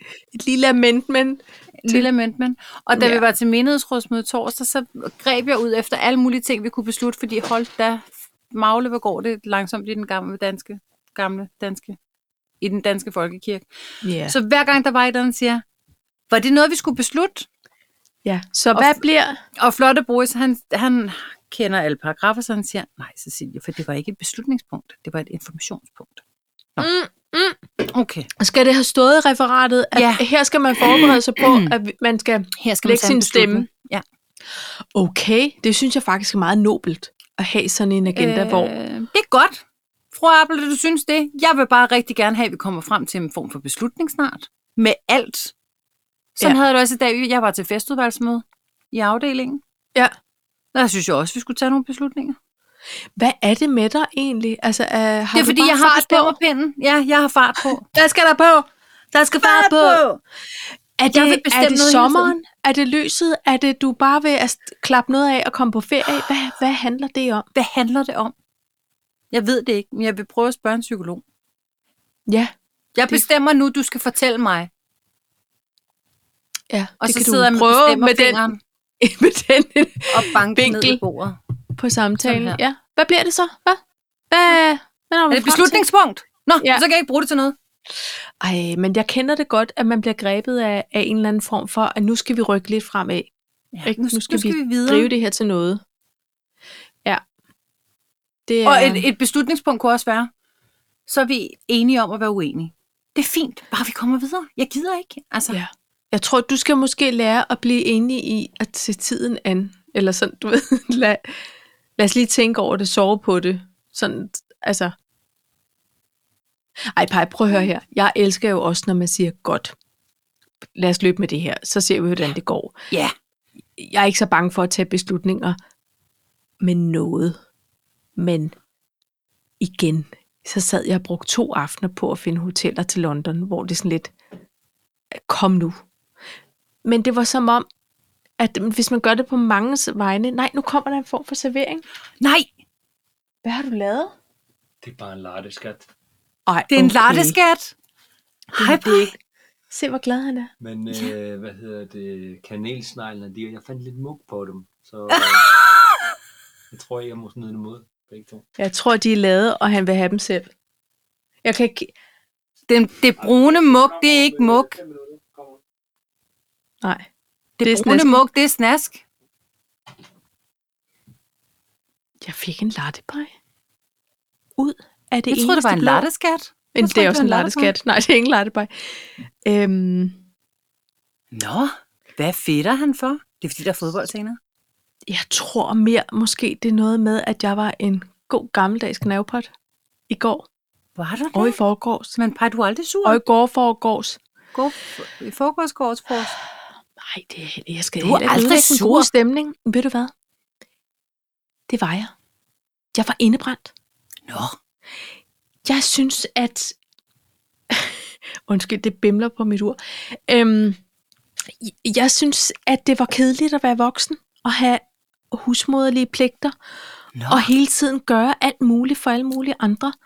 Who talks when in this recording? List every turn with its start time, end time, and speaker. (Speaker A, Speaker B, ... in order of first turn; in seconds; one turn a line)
Speaker A: 0.3-2.0
Speaker B: 1.8-12.0
Speaker A: 2.9-3.2
Speaker B: 12.6-13.6
Speaker A: 14.0-14.4
Speaker B: 14.2-15.6
Speaker B: 16.3-17.5
Speaker A: 18.2-19.4
Speaker B: 18.7-19.0
Speaker B: 19.6-26.2
Speaker A: 26.8-27.6
Speaker B: 27.9-28.3
Speaker A: 28.4-33.7
Speaker B: 29.9-31.7
Speaker B: 32.6-34.0
Speaker A: 34.9-38.7
Speaker B: 38.1-45.5
Speaker B: 46.4-49.6
Speaker B: 50.7-52.4
Speaker A: 53.2-56.4
Speaker B: 55.3-57.9
Speaker A: 57.9-60.0
Speaker B: 59.3-60.2
Speaker A: 61.0-67.5
Speaker B: 61.1-62.3
Speaker B: 67.5-68.3
Speaker B: 69.3-71.2
Speaker A: 72.3-72.5
Speaker B: 72.9-74.7
Speaker A: 76.7-78.4
Speaker B: 77.0-78.6
Speaker A: 79.0-81.0
Speaker B: 80.1-81.4
Speaker A: 81.8-85.8
Speaker B: 82.2-82.6
Speaker B: 85.3-87.5
Speaker A: 88.4-93.3
Speaker B: 93.7-95.1
Speaker A: 93.8-95.8
Speaker A: 98.5-99.0
Speaker B: 98.6-100.3
Speaker B: 101.1-105.6
Speaker A: 105.5-111.3
Speaker A: 112.0-114.9
Speaker A: 116.9-119.7
Speaker A: 120.8-122.8
Speaker A: 123.8-125.6
Speaker A: 126.6-127.4
Speaker A: 128.2-128.6
Speaker A: 129.6-134.1
Speaker A: 135.1-135.8
Speaker A: 136.8-137.7
Speaker A: 138.4-141.8
Speaker B: 142.2-142.5
Speaker A: 143.4-144.1
Speaker C: 144.8-145.9
Speaker A: 146.5-147.4
Speaker B: 146.7-147.7
Speaker B: 148.5-149.1
Speaker A: 148.6-149.1
Speaker A: 149.7-151.1
Speaker C: 150.6-155.5
Speaker B: 155.1-156.0
Speaker C: 156.7-158.4
Speaker A: 158.6-160.5
Speaker A: 161.4-161.9
Speaker B: 162.7-164.8
Speaker B: 167.6-169.0
Speaker A: 167.6-168.2
Speaker A: 172.2-173.3
Speaker A: 174.6-176.0
Speaker B: 175.3-177.7
Speaker A: 176.7-180.2
Speaker B: 181.3-184.4
Speaker A: 185.1-189.5
Speaker A: 190.1-190.5
Speaker B: 190.9-191.6
Speaker A: 191.3-192.2
Speaker B: 192.2-193.2
Speaker A: 193.0-194.2
Speaker B: 194.5-196.3
Speaker A: 197.0-200.1
Speaker B: 198.0-199.1
Speaker A: 201.7-202.1
Speaker A: 202.9-203.7
Speaker B: 204.3-204.6
Speaker A: 205.6-206.8
Speaker A: 207.7-210.8
Speaker A: 211.6-216.5
Speaker B: 217.2-217.5
Speaker A: 217.3-219.9